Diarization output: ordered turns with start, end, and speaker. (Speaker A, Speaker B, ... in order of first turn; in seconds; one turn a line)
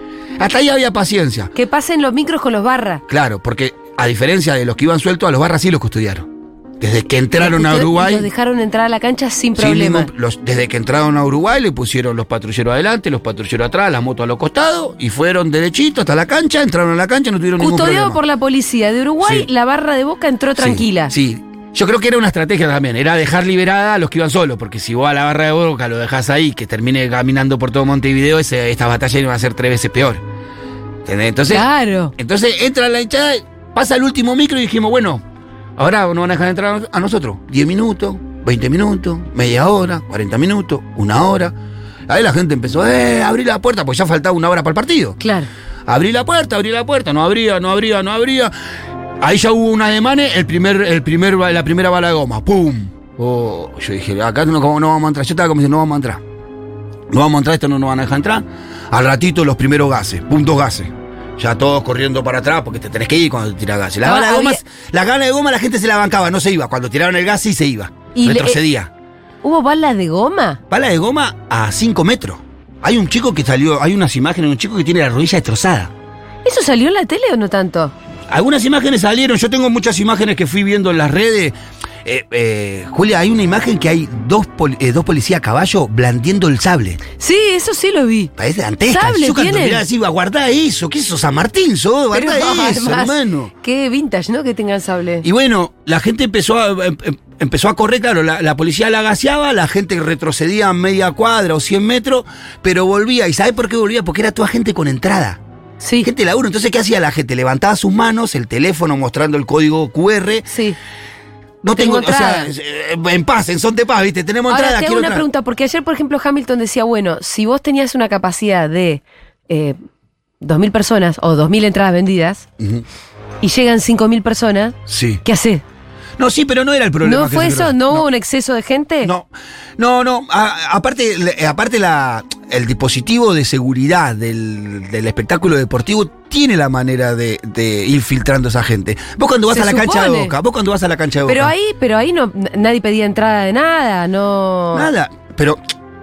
Speaker A: 0.4-1.5
Speaker B: 1.5-3.0
Speaker A: 3.1-6.3
Speaker A: 6.8-8.3
Speaker B: 7.3-10.1
Speaker A: 9.6-18.2
Speaker B: 17.6-21.1
Speaker A: 19.2-19.5
Speaker A: 20.6-30.2
Speaker A: 31.0-35.2
Speaker B: 31.5-32.1
Speaker A: 35.8-41.5
Speaker A: 42.1-45.2
Speaker B: 45.2-45.5
Speaker A: 45.9-48.5
Speaker A: 49.2-56.2
Speaker A: 57.1-68.9
Speaker B: 64.0-64.6
Speaker B: 68.1-68.6
Speaker B: 69.4-70.6
Speaker A: 70.7-75.9
Speaker B: 76.4-77.9
Speaker A: 78.3-87.0
Speaker B: 87.2-88.3
Speaker A: 88.4-93.5
Speaker B: 88.9-89.8
Speaker B: 92.1-95.2
Speaker A: 95.2-105.4
Speaker B: 105.8-106.1
Speaker A: 106.0-110.5
Speaker B: 110.5-110.8
Speaker A: 111.6-115.2
Speaker B: 111.7-112.5
Speaker B: 114.5-119.8
Speaker B: 120.4-122.5
Speaker A: 122.6-122.8
Speaker B: 123.4-125.6
Speaker A: 124.9-125.2
Speaker A: 126.2-128.1
Speaker B: 127.0-129.1
Speaker A: 129.0-141.5
Speaker B: 139.5-140.3
Speaker B: 141.3-144.9
Speaker A: 144.7-145.6